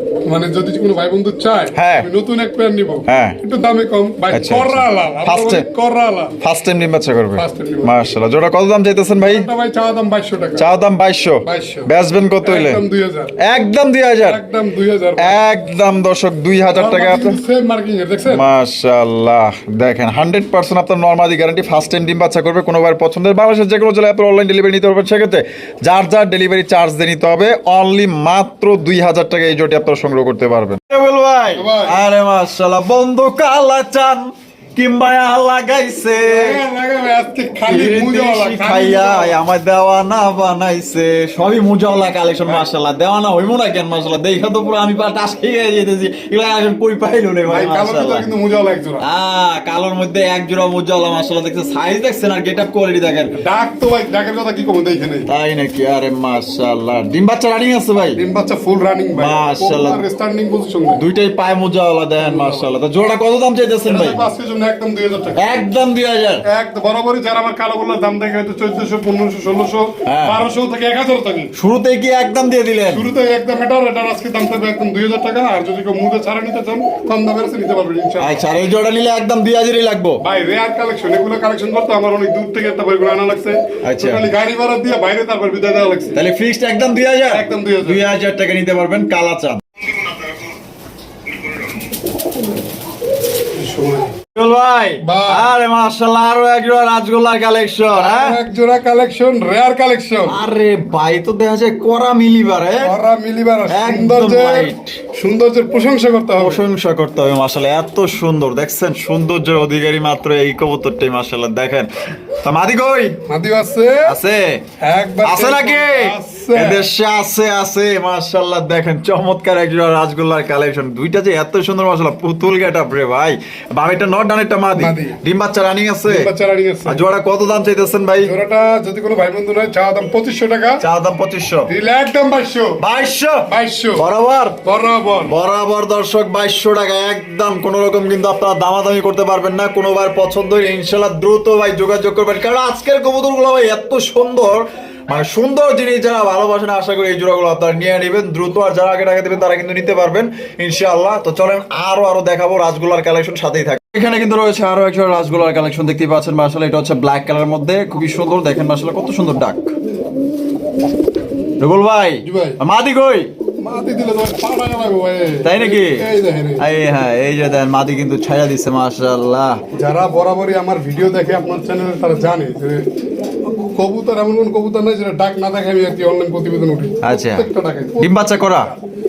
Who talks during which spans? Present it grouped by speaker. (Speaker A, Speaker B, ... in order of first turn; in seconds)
Speaker A: 0.2-6.3, 7.3-8.0, 9.2-10.7, 11.4-11.9, 12.4-13.4, 14.2-15.4, 16.7-18.4, 31.5-32.0, 36.2-39.3, 47.5-49.0, 53.4-55.3, 58.1-61.0, 62.2-62.7, 63.9-65.5, 66.4-71.5, 72.9-78.4, 80.2-86.2, 87.3-88.0, 93.5-94.2, 95.0-95.5, 97.9-100.4, 102.8-106.6, 113.3-114.2, 114.8-116.9, 124.7-125.2, 126.1-127.0, 128.2-130.8, 131.7-132.8, 133.5-134.0, 134.6-135.3, 162.2-162.6, 163.6-166.6, 169.7-172.9, 173.5-178.8
Speaker B: 1.7-2.1, 3.1-3.4, 4.3-5.7, 6.4-9.5, 10.6-12.8, 13.4-14.4, 15.2-17.4, 18.3-36.6, 37.6-48.3, 49.0-53.3, 55.3-58.2, 59.1-60.0, 61.0-64.2, 65.3-66.4, 70.0-70.4, 71.5-73.1, 78.2-80.2, 83.8-84.3, 86.1-90.3, 94.3-98.4, 100.2-103.0, 103.7-105.0, 106.3-113.2, 114.0-114.6, 115.2-126.3, 126.8-128.3, 130.8-131.7, 132.8-134.6, 135.2-159.8, 161.6-163.3, 165.4-169.6, 177.0-178.7